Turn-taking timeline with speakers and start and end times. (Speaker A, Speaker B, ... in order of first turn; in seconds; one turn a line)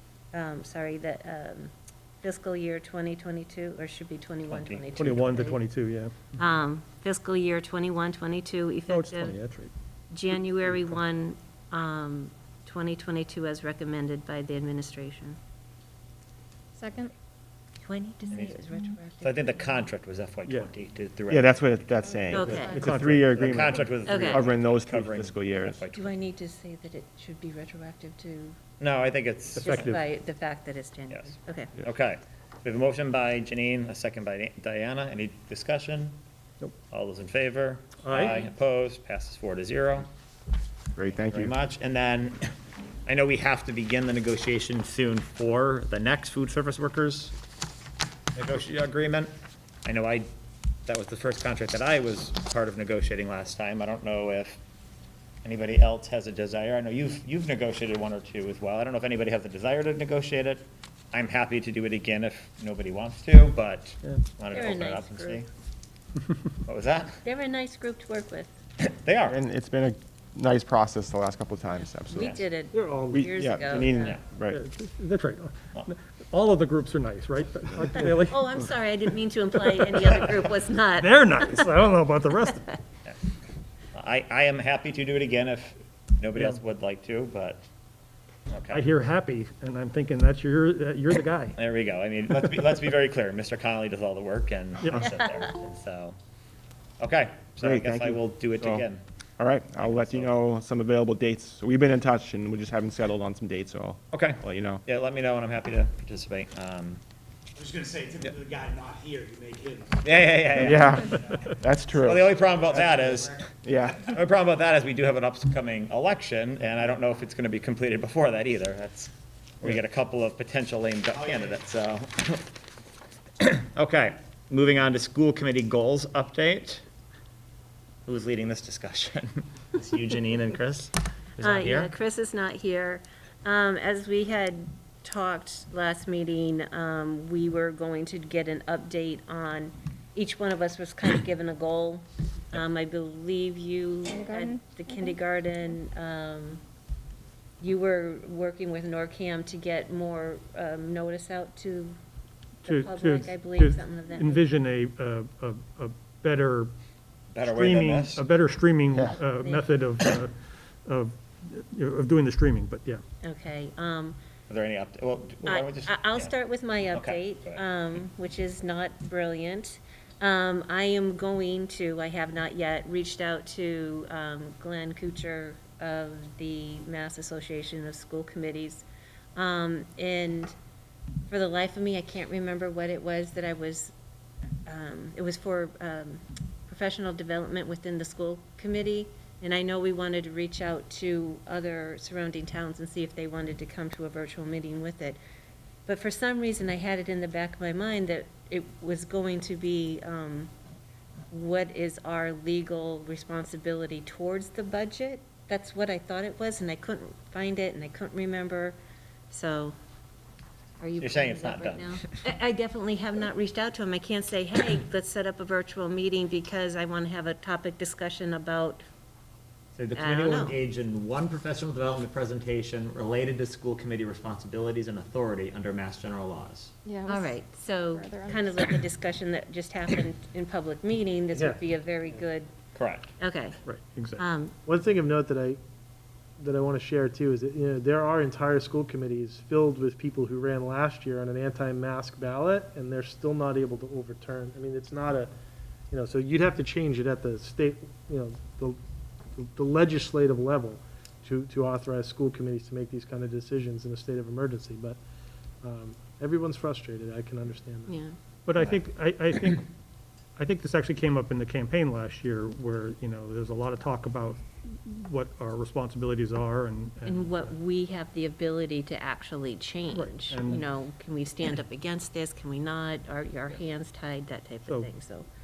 Speaker A: 0.3-5.6
Speaker B: 4.5-4.8
Speaker C: 5.0-6.1
Speaker A: 6.4-9.4
Speaker C: 8.9-9.7
Speaker A: 10.1-15.4
Speaker D: 16.8-17.1
Speaker A: 17.8-19.4
Speaker B: 18.3-18.6
Speaker B: 19.2-21.8
Speaker E: 21.3-25.8
Speaker A: 22.3-22.8
Speaker C: 22.4-23.8
Speaker D: 22.6-22.9
Speaker B: 23.2-26.2
Speaker A: 24.0-24.4
Speaker A: 25.9-28.6
Speaker B: 28.8-29.9
Speaker C: 29.6-30.0
Speaker A: 29.6-31.7
Speaker B: 31.1-36.2
Speaker B: 36.9-40.1
Speaker C: 38.0-38.4
Speaker E: 41.0-41.5
Speaker B: 41.1-42.5
Speaker B: 43.0-47.3
Speaker B: 48.3-49.3
Speaker B: 49.8-50.3
Speaker B: 50.9-54.6
Speaker B: 55.4-65.5
Speaker A: 64.5-65.5
Speaker B: 66.7-67.2
Speaker A: 67.2-68.5
Speaker B: 68.8-69.4
Speaker E: 69.3-72.3
Speaker A: 71.7-74.2
Speaker B: 72.1-72.4
Speaker F: 72.7-73.3
Speaker E: 73.1-74.6
Speaker C: 74.5-78.4
Speaker A: 78.2-81.7
Speaker C: 81.0-82.8
Speaker B: 83.9-87.6
Speaker C: 86.3-86.6
Speaker B: 88.5-88.8
Speaker C: 88.7-91.6
Speaker B: 91.5-96.2
Speaker C: 94.8-95.2
Speaker B: 97.0-99.0
Speaker E: 97.6-98.8
Speaker E: 99.4-104.8
Speaker B: 99.8-100.3
Speaker B: 104.1-107.0
Speaker G: 107.5-110.0
Speaker B: 110.0-111.2
Speaker E: 110.5-112.3
Speaker B: 112.0-113.5
Speaker E: 113.6-114.1
Speaker B: 114.0-122.5
Speaker B: 123.4-126.8
Speaker B: 128.1-131.9
Speaker A: 131.4-146.6
Speaker D: 144.1-144.6
Speaker A: 147.6-152.0
Speaker A: 152.6-154.4
Speaker C: 152.6-156.7
Speaker B: 157.3-158.2
Speaker C: 157.4-160.3
Speaker A: 159.4-159.8
Speaker C: 160.8-163.0
Speaker A: 163.2-164.2
Speaker B: 164.5-166.3
Speaker A: 165.4-178.8
Speaker B: 166.9-167.6
Speaker A: 179.3-180.5
Speaker A: 181.3-183.9
Speaker A: 184.7-195.2
Speaker A: 195.8-200.5
Speaker A: 201.3-208.8
Speaker A: 209.3-209.8
Speaker A: 210.8-218.8
Speaker B: 211.0-212.2
Speaker B: 219.8-226.7
Speaker A: 219.9-220.6
Speaker D: 226.8-227.4
Speaker A: 227.1-232.5
Speaker D: 227.9-228.7
Speaker F: 231.3-231.6
Speaker B: 232.7-233.1
Speaker A: 233.2-233.6
Speaker C: 233.7-234.2
Speaker A: 234.2-234.5
Speaker F: 234.7-235.6
Speaker F: 236.4-245.3
Speaker F: 245.9-248.8
Speaker F: 249.3-255.0
Speaker F: 255.6-257.9
Speaker A: 257.9-258.1
Speaker C: 258.4-259.6
Speaker C: 260.4-267.5
Speaker A: 267.0-275.2
Speaker C: 269.9-270.6